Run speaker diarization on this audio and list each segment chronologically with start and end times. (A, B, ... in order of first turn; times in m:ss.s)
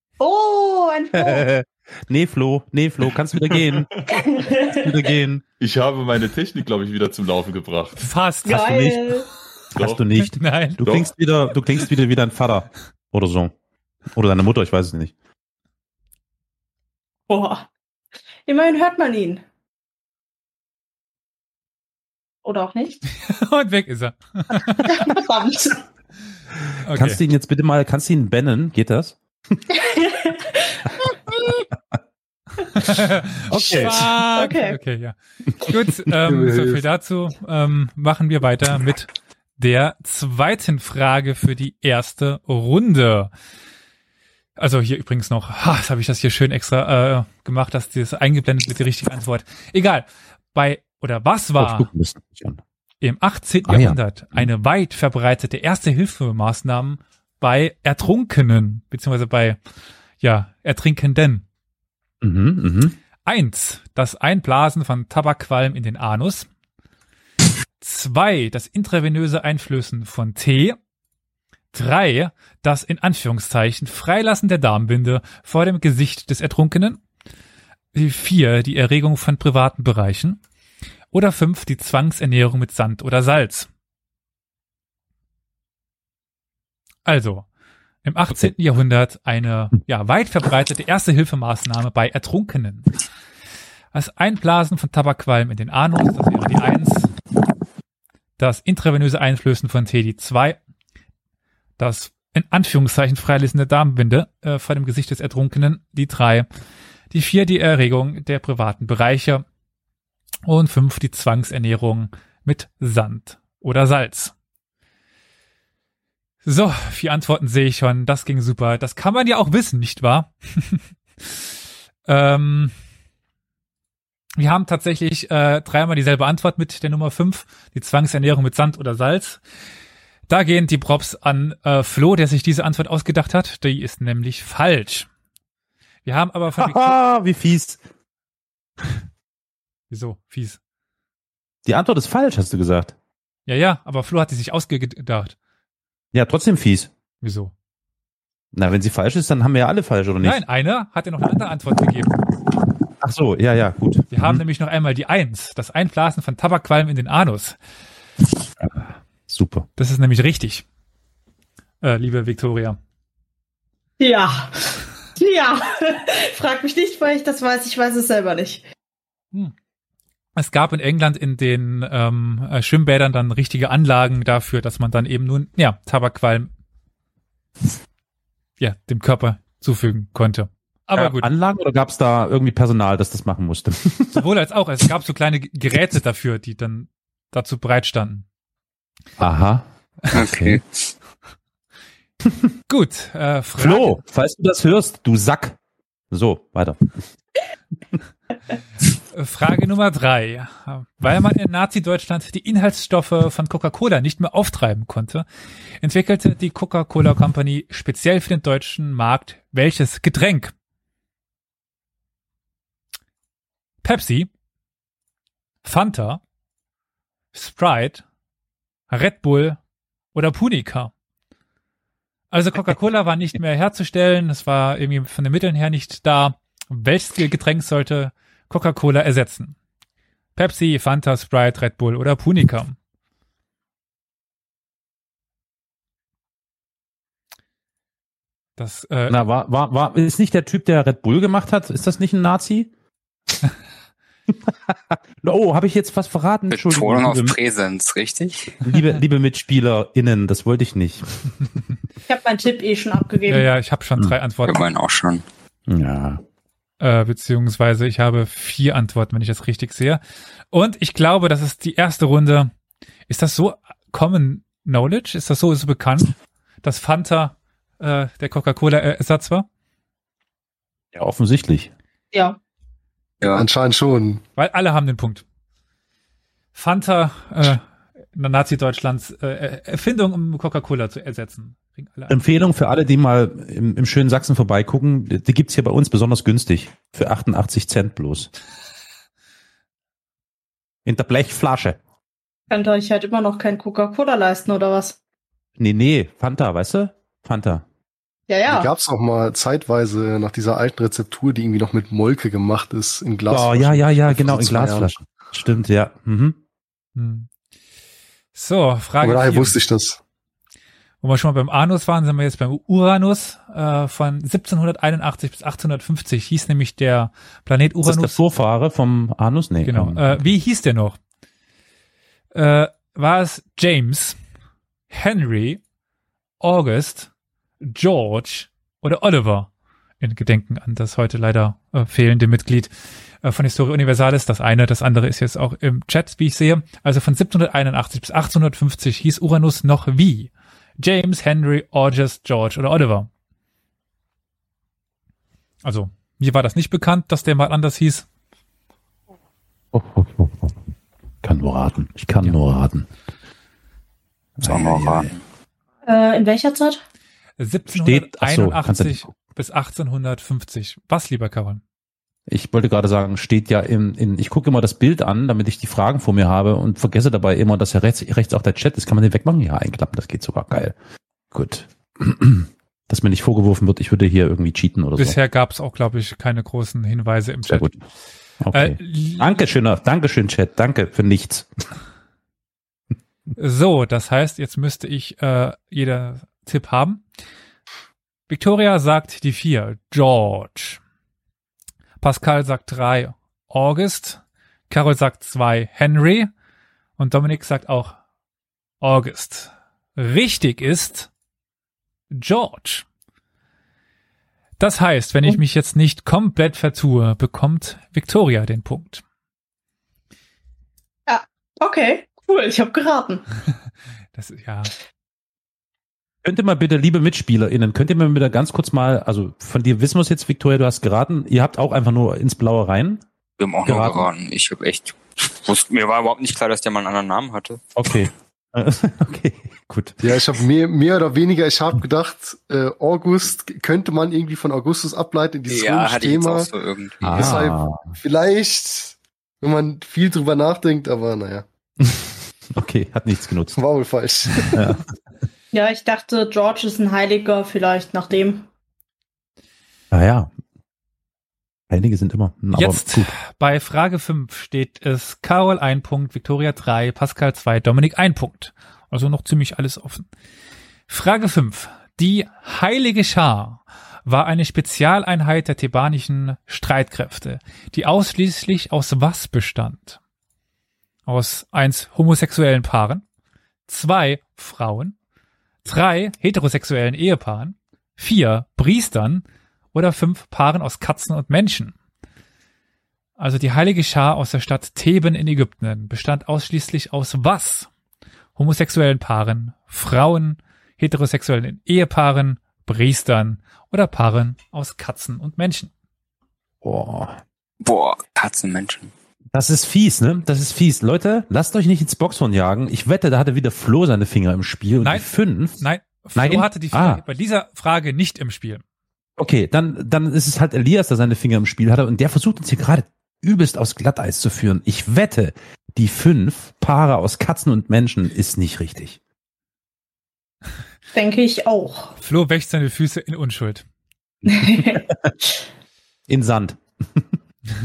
0:00.2-0:01.4 A
0:01.1-0:04.0 B
0:04.1-0:05.0 A
0:04.6-0:05.4 B
0:05.6-0:08.0 C
0:08.0-0:08.7 D
0:08.4-0:09.3 A
0:08.5-0:09.1 B
0:09.8-0:10.0 C
0:09.8-0:13.5 B
0:10.2-0:10.8 D
0:10.8-0:11.1 C
0:14.1-0:15.1 B
0:17.3-0:17.7 A
0:18.4-0:19.4 A
0:22.4-0:23.0 A
0:23.2-0:25.2 D
0:24.8-0:25.8 A
0:26.8-0:27.2 D
0:26.9-0:29.6 B
0:29.7-0:31.0 A
0:32.7-0:43.3 D
0:33.5-0:34.1 B
0:33.7-0:34.8 A
0:36.2-0:36.8 E
0:44.6-0:51.9 D
0:51.6-0:52.6 B
0:53.0-0:59.6 D
0:53.6-0:54.5 B
1:00.2-1:01.4 D
1:02.2-1:03.0 B
1:03.2-1:06.5 D
1:07.8-1:10.8 D
1:11.7-1:17.0 D
1:17.9-1:20.4 D
1:21.1-1:23.7 D
1:27.0-1:27.5 D
1:28.0-1:32.9 D
1:33.9-1:37.1 D
1:38.4-1:40.6 D
1:41.8-1:46.5 D
1:47.1-1:49.4 D
1:50.4-1:54.3 D
1:56.4-2:00.8 D
2:02.1-2:02.7 D
2:04.4-2:09.4 D
2:10.3-2:15.1 D
2:16.0-2:17.0 D
2:16.6-2:17.8 B
2:19.9-2:20.6 D
2:21.6-2:22.9 B
2:23.5-2:25.3 D
2:26.1-2:26.9 B
2:27.2-2:27.5 D
2:28.5-2:30.4 B
2:30.2-2:32.2 D
2:33.0-2:34.4 B
2:34.1-2:37.6 D
2:38.6-2:39.7 B
2:39.8-2:40.6 D
2:41.8-2:42.8 D
2:44.0-2:48.6 A
2:50.4-2:56.5 D
2:58.6-3:01.3 D
3:01.0-3:04.2 B
3:04.1-3:08.2 D
3:09.2-3:10.6 B
3:10.1-3:10.6 F
3:12.7-3:14.0 D
3:13.6-3:15.6 B
3:16.1-3:16.8 B
3:19.1-3:25.2 D
3:25.8-3:30.5 D
3:33.8-3:34.3 D
3:35.6-3:36.2 D
3:37.3-3:38.0 D
3:38.9-3:39.6 D
3:40.1-3:40.9 D
3:42.3-3:49.6 D
3:50.4-3:52.8 D
3:58.6-3:59.2 D
3:59.1-4:02.7 B
4:04.3-4:07.4 B
4:06.5-4:08.6 F
4:08.6-4:11.1 B
4:12.1-4:13.5 A
4:13.3-4:14.6 D
4:14.4-4:15.2 F
4:15.7-4:16.2 B
4:16.8-4:20.0 D
4:20.5-4:22.5 D
4:23.1-4:29.5 D
4:30.9-4:31.7 B
4:32.1-4:32.4 A
4:33.2-4:34.2 E
4:34.4-4:35.2 D
4:36.5-4:37.6 D
4:38.1-4:42.2 D
4:42.1-4:48.3 B
4:50.8-4:51.8 B
4:52.5-4:55.0 A
4:55.6-4:57.6 B
4:58.3-4:58.7 A
4:58.5-5:04.9 E
5:03.3-5:06.4 B
5:07.0-5:07.3 D
5:08.3-5:09.6 D
5:09.0-5:10.0 E
5:11.0-5:18.2 D
5:17.8-5:20.3 B
5:19.6-5:21.0 D
5:22.3-5:24.2 D
5:24.9-5:25.6 D
5:26.4-5:27.1 D
5:27.6-5:32.7 D
5:33.2-5:43.1 D
5:45.6-5:48.0 D
5:49.7-5:50.6 B
5:51.2-5:52.9 B
5:54.4-5:55.1 B
5:54.4-5:55.2 F
5:55.8-5:56.8 A
5:57.4-6:01.6 D
5:57.7-5:59.1 B
6:02.3-6:10.8 B
6:11.3-6:15.2 B
6:15.0-6:17.7 D
6:17.5-6:17.8 B
6:18.4-6:21.5 B
6:18.5-6:19.4 D
6:23.4-6:27.0 D
6:28.3-6:30.8 D
6:32.0-6:36.3 D
6:37.0-6:38.0 D
6:38.8-6:41.1 D
6:42.1-6:42.8 D
6:44.6-6:49.0 D
6:51.1-6:53.2 A
6:54.1-6:54.7 D
6:56.2-7:03.0 B
7:03.4-7:07.6 F
7:03.6-7:04.1 B
7:07.8-7:10.2 B
7:10.0-7:16.5 E
7:15.5-7:17.4 F
7:17.0-7:17.9 B
7:17.0-7:21.4 E
7:21.8-7:23.6 B
7:23.5-7:24.8 E
7:24.3-7:24.8 B
7:25.5-7:28.4 A
7:29.9-7:30.3 B
7:31.7-7:33.1 B
7:32.5-7:40.1 D
7:40.9-7:50.0 D
7:51.0-7:53.0 D
7:53.7-7:54.9 D
7:55.6-8:01.7 D
8:03.2-8:07.7 D
8:08.4-8:15.7 D
8:16.6-8:17.2 B
8:17.6-8:18.9 F
8:19.3-8:25.6 B
8:24.8-8:28.6 D
8:26.2-8:27.0 B
8:29.2-8:39.0 B
8:40.9-8:41.9 A
8:42.0-8:43.6 D
8:44.3-8:45.1 B
8:44.3-8:45.3 A
8:46.1-8:47.1 B